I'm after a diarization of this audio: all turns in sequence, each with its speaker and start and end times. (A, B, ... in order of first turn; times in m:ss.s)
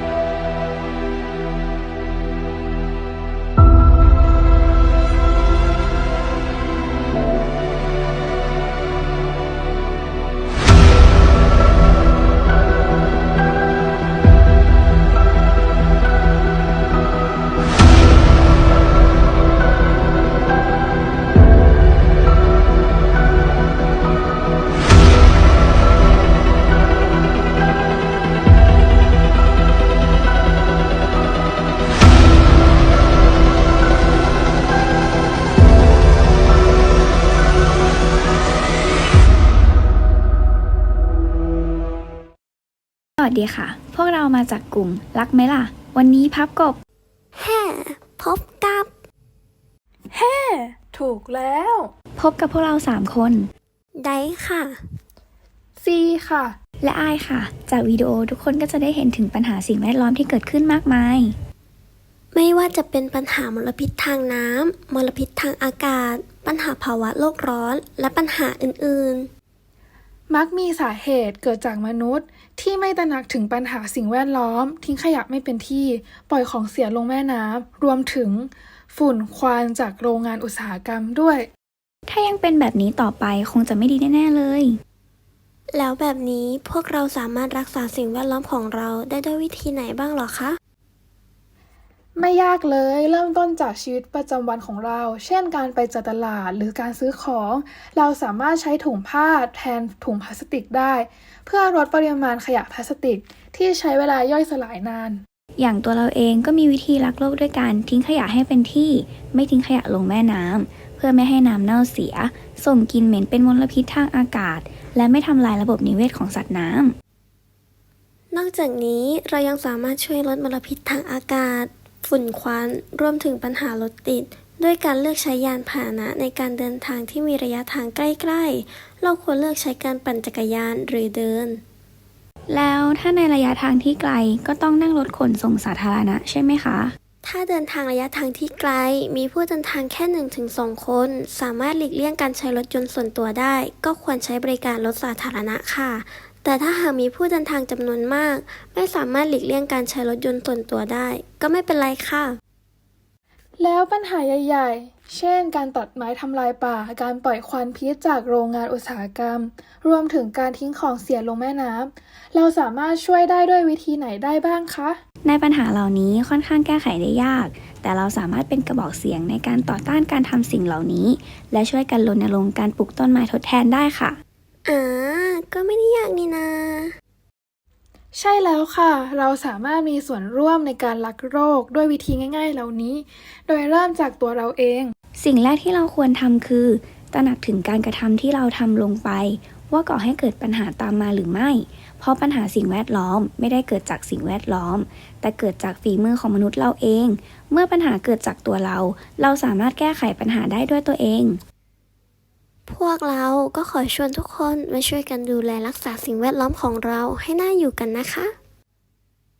0:43.2-0:46.8 A
0:47.4-0:48.9 B
0:50.1-0:51.9 C
0:52.2-0:53.5 A
0:54.0-0:54.8 B
0:55.8-0:56.6 C
0:56.8-1:01.3 A
1:02.3-1:09.3 B
1:10.3-1:21.5 C
1:22.1-1:24.8 A
1:25.7-1:30.6 B
1:32.2-1:45.2 C
1:45.6-1:56.9 A
1:58.3-2:11.6 B
2:12.5-2:16.9 A
2:17.2-2:32.4 B
2:33.6-2:45.0 C
2:45.2-2:54.2 A
2:54.6-2:56.9 B
2:58.1-3:04.9 C
3:05.1-3:21.4 A
3:22.7-3:28.3 B